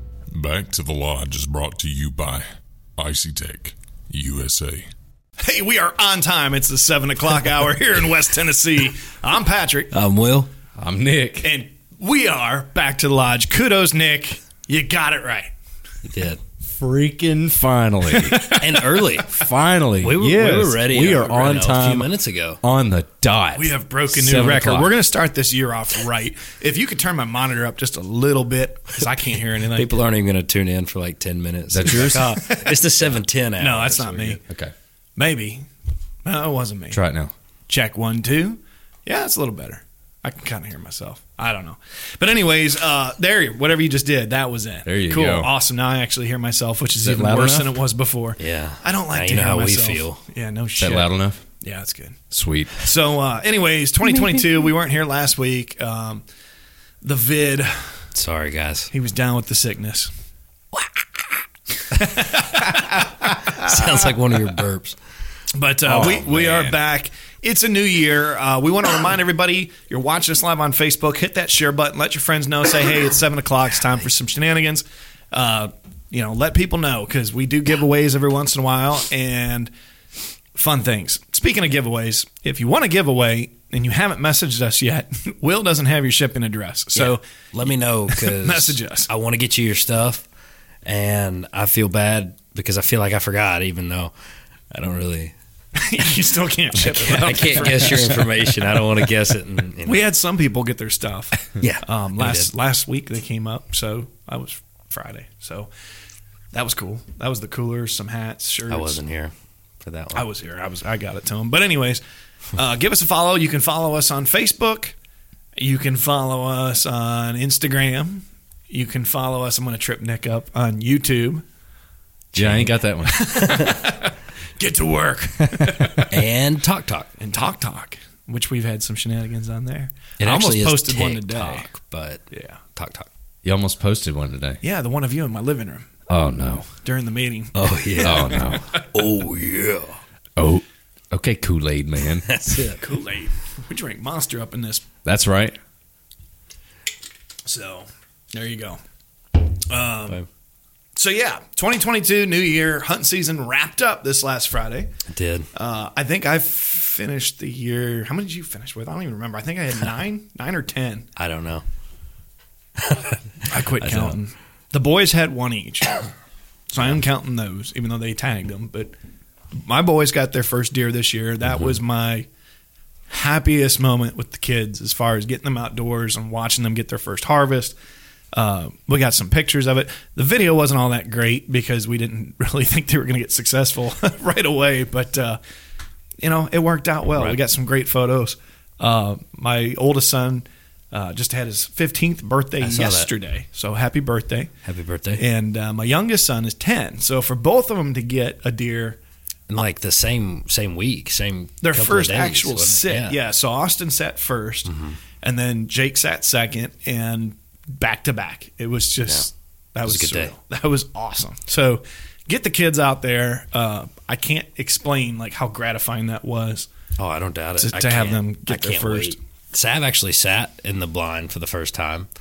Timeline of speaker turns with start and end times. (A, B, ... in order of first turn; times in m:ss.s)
0:00.3-0:04.9 A
0:05.4-0:09.9 B
0:09.9-0:10.5 C
0:10.8-0:11.5 D
0:11.4-0:15.5 B
0:16.0-0:16.4 C
0:16.6-0:18.6 D
0:18.1-0:18.9 B
0:18.6-0:19.3 C
0:19.2-0:22.1 D
0:20.0-0:22.6 C
0:22.6-0:24.9 D
0:23.5-0:29.9 B
0:29.7-0:34.4 C
0:31.7-0:32.4 D
0:32.4-0:32.8 B
0:33.6-0:34.4 B
0:34.5-0:34.7 D
0:35.2-0:35.6 B
0:36.2-0:37.0 B
0:36.9-0:37.3 D
0:37.7-0:52.2 B
0:44.8-0:45.5 D
0:47.0-0:47.7 D
0:48.4-0:50.2 C
0:50.8-0:51.4 D
0:52.3-0:52.8 D
0:52.7-0:56.2 B
0:57.0-0:58.0 B
0:58.1-0:58.9 C
0:58.9-1:00.1 B
1:01.9-1:03.7 B
1:03.4-1:05.0 C
1:05.5-1:19.7 B
1:05.9-1:06.7 D
1:20.6-1:27.2 B
1:26.9-1:30.2 C
1:28.1-1:29.1 B
1:30.8-1:34.1 C
1:34.7-1:35.3 C
1:35.8-1:38.5 B
1:36.8-1:40.0 C
1:39.8-1:45.7 B
1:41.6-1:42.5 C
1:46.5-1:49.0 B
1:48.7-1:50.2 C
1:50.1-1:52.0 B
1:52.5-1:54.9 B
1:55.6-2:01.4 B
2:02.3-2:02.7 C
2:02.3-2:03.3 D
2:03.0-2:06.0 B
2:03.4-2:03.7 C
2:06.1-2:07.1 C
2:07.2-2:11.7 B
2:10.2-2:13.1 C
2:12.3-2:12.6 B
2:13.4-2:14.6 D
2:14.6-2:15.9 B
2:16.1-2:16.7 D
2:16.8-2:18.8 B
2:17.5-2:20.0 C
2:18.0-2:18.7 D
2:20.4-2:22.3 D
2:22.2-2:22.8 C
2:22.8-2:24.8 B
2:25.0-2:25.6 D
2:27.4-2:28.8 B
2:29.7-2:30.2 B
2:31.0-2:34.9 B
2:35.1-2:35.5 C
2:35.5-2:41.1 B
2:41.2-2:41.6 C
2:42.8-2:44.2 C
2:43.5-2:46.0 B
2:46.7-2:48.9 B
2:49.5-2:52.3 B
2:53.1-2:57.7 B
2:58.3-3:05.4 B
3:06.2-3:14.5 B
3:12.6-3:13.1 C
3:14.6-3:15.2 C
3:15.2-3:19.0 B
3:19.5-3:23.2 C
3:21.6-3:36.7 B
3:24.6-3:25.0 C
3:29.8-3:30.3 C
3:37.0-3:42.1 C
3:37.6-3:39.2 B